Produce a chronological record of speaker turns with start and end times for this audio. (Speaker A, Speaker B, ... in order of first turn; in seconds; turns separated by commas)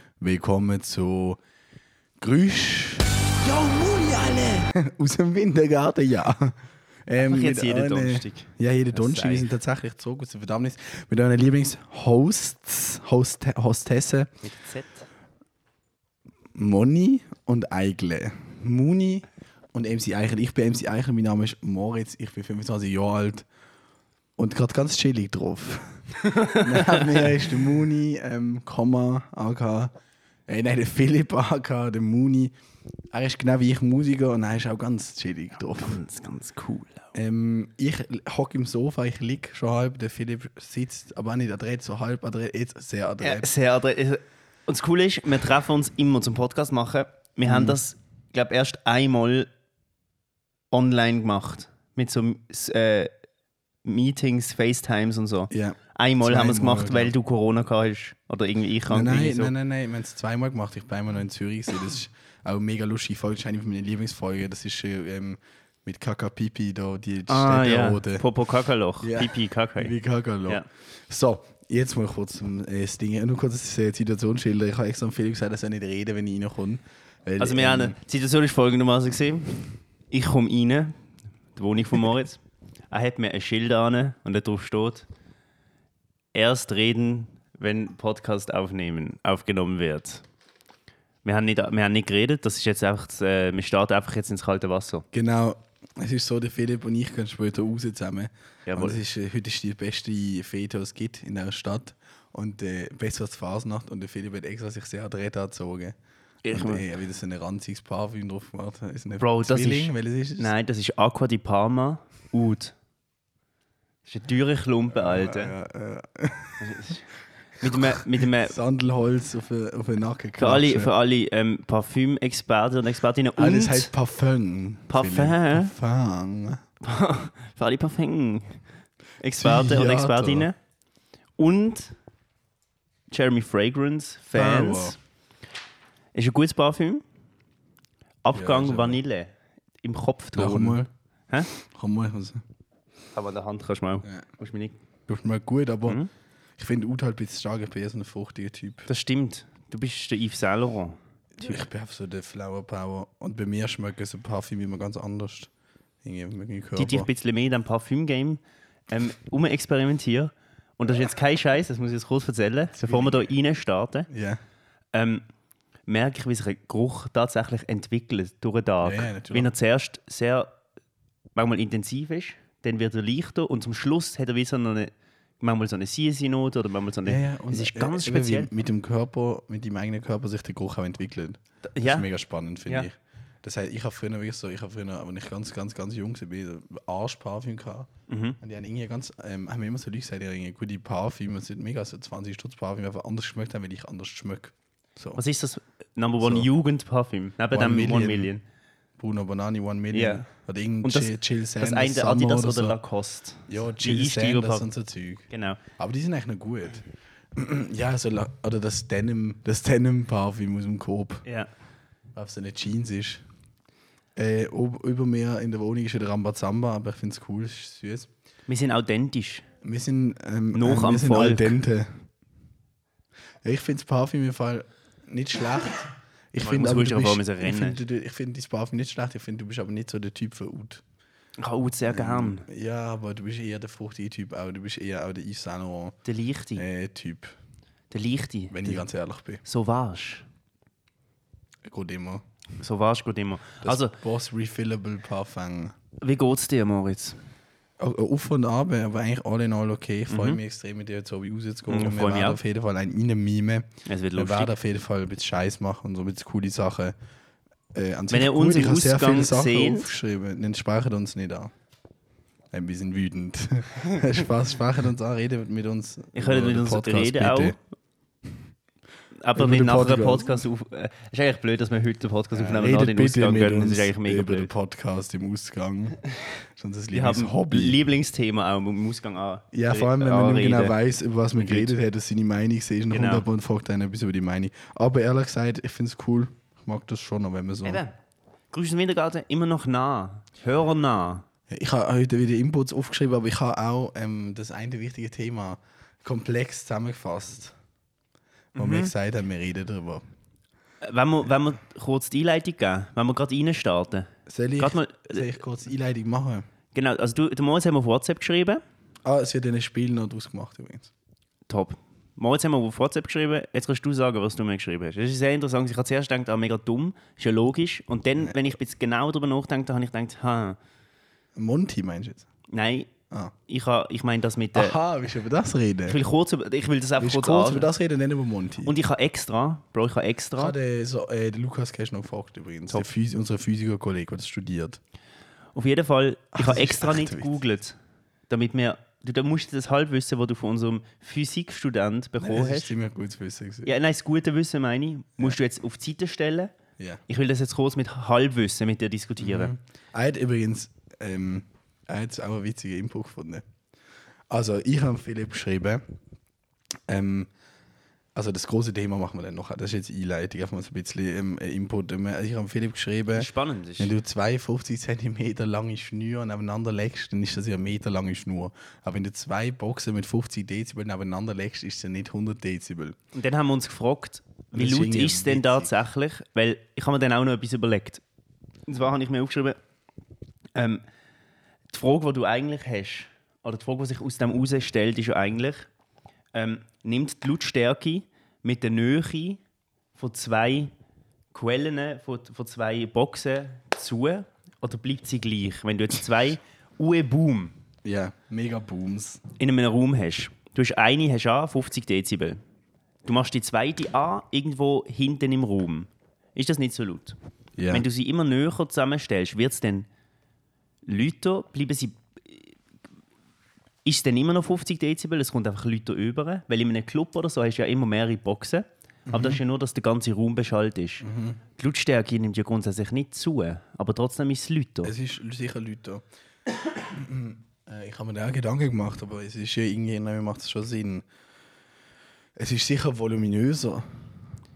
Speaker A: 0.2-1.4, Speaker A: 2.2-6.5, Speaker A: 7.1-14.3, Speaker B: 7.2-9.5, Speaker B: 14.4-15.1, Speaker A: 16.5-23.4, Speaker A: 24.4-29.9, Speaker B: 26.4-27.2, Speaker A: 30.5-32.5, Speaker A: 33.1-36.0, Speaker B: 35.8-37.0, Speaker A: 37.1-43.5, Speaker B: 43.2-49.5, Speaker A: 47.5-47.8, Speaker B: 50.7-53.1, Speaker B: 53.8-59.5, Speaker A: 55.5-57.1, Speaker A: 58.9-68.2, Speaker B: 67.3-69.9, Speaker A: 69.0-78.0, Speaker B: 77.4-80.9, Speaker B: 81.5-85.1, Speaker B: 86.3-90.2, Speaker B: 91.2-95.0, Speaker A: 95.1-105.9, Speaker B: 98.7-99.0, Speaker B: 106.4-106.8, Speaker A: 106.5-110.5, Speaker B: 109.2-112.7, Speaker B: 114.0-115.5, Speaker A: 114.9-117.0, Speaker B: 116.6-117.0, Speaker B: 117.6-118.6, Speaker A: 117.6-120.9, Speaker B: 120.4-123.9, Speaker A: 123.3-126.6, Speaker B: 124.9-125.7, Speaker B: 126.8-128.6, Speaker B: 129.2-130.6, Speaker A: 129.3-130.5, Speaker B: 131.4-131.9, Speaker B: 133.1-134.9, Speaker A: 134.3-135.0, Speaker B: 136.1-137.0, Speaker B: 138.2-141.5, Speaker A: 138.3-139.0, Speaker A: 140.3-140.9, Speaker A: 141.5-142.4, Speaker B: 143.1-144.8, Speaker A: 145.1-146.0, Speaker A: 146.6-148.9, Speaker B: 148.9-151.6, Speaker A: 151.3-155.5, Speaker A: 156.0-157.1, Speaker B: 156.8-164.1, Speaker A: 162.8-163.3, Speaker A: 164.1-164.4, Speaker B: 164.9-165.2, Speaker B: 165.9-170.5, Speaker A: 168.8-169.5, Speaker B: 171.3-178.5, Speaker A: 177.0-187.9, Speaker B: 181.7-182.1, Speaker B: 188.1-188.4, Speaker A: 188.4-195.2, Speaker B: 195.2-198.4, Speaker A: 196.2-196.5, Speaker A: 197.5-198.3, Speaker A: 199.0-202.8, Speaker B: 199.9-200.3, Speaker B: 200.8-204.7, Speaker A: 203.5-211.2, Speaker B: 205.3-205.6, Speaker B: 211.2-211.5, Speaker A: 212.1-213.2, Speaker A: 214.2-218.1, Speaker B: 218.5-219.4, Speaker A: 219.6-222.0, Speaker B: 220.5-221.6, Speaker A: 223.4-230.8, Speaker B: 226.4-227.8, Speaker B: 231.4-232.4, Speaker A: 231.9-236.0, Speaker B: 236.0-236.6, Speaker A: 236.6-237.3, Speaker B: 237.9-238.8, Speaker A: 238.5-239.4, Speaker B: 239.4-240.2, Speaker A: 241.7-242.2, Speaker B: 242.6-243.9, Speaker A: 243.6-245.8, Speaker B: 246.0-247.2, Speaker A: 247.8-256.9, Speaker B: 250.1-250.4, Speaker B: 251.7-252.4, Speaker B: 253.8-254.5, Speaker A: 257.7-261.5, Speaker B: 258.1-259.9, Speaker A: 262.5-267.6, Speaker B: 266.1-267.6, Speaker B: 269.2-274.5, Speaker A: 269.3-270.4, Speaker A: 272.3-276.0, Speaker A: 276.6-277.8, Speaker B: 276.9-280.8, Speaker A: 279.5-287.8, Speaker B: 281.4-281.7, Speaker B: 282.9-283.2, Speaker B: 287.6-287.9, Speaker B: 288.5-291.2, Speaker A: 291.5-297.5, Speaker B: 298.6-298.9, Speaker A: 298.6-300.0, Speaker B: 300.8-305.4, Speaker A: 304.3-306.4, Speaker B: 306.7-308.6, Speaker A: 309.0-310.9, Speaker B: 311.5-320.6, Speaker A: 321.4-322.3, Speaker B: 322.5-322.9, Speaker B: 323.5-324.7, Speaker A: 324.5-326.0, Speaker B: 325.9-327.7, Speaker A: 327.0-328.7, Speaker B: 328.6-330.5, Speaker A: 330.4-334.8, Speaker B: 335.5-337.8, Speaker A: 336.3-337.3, Speaker B: 338.3-342.7, Speaker A: 342.2-343.7, Speaker B: 343.6-346.5, Speaker B: 347.1-349.5, Speaker A: 349.2-353.4, Speaker A: 354.3-355.8, Speaker A: 356.9-357.3, Speaker A: 358.1-373.0, Speaker B: 363.1-363.9, Speaker B: 373.1-378.0, Speaker A: 374.5-375.7, Speaker B: 378.6-379.6, Speaker B: 380.5-380.8, Speaker B: 381.7-385.7, Speaker B: 386.3-389.4, Speaker B: 389.9-390.7, Speaker B: 391.3-397.5, Speaker A: 397.8-399.2, Speaker B: 399.4-402.4, Speaker B: 403.0-407.2, Speaker A: 407.6-407.9, Speaker B: 407.7-409.9, Speaker B: 410.8-412.5, Speaker B: 413.8-424.9, Speaker A: 419.1-419.4, Speaker A: 421.0-421.4, Speaker A: 424.8-426.0, Speaker A: 426.7-431.0, Speaker A: 432.4-433.9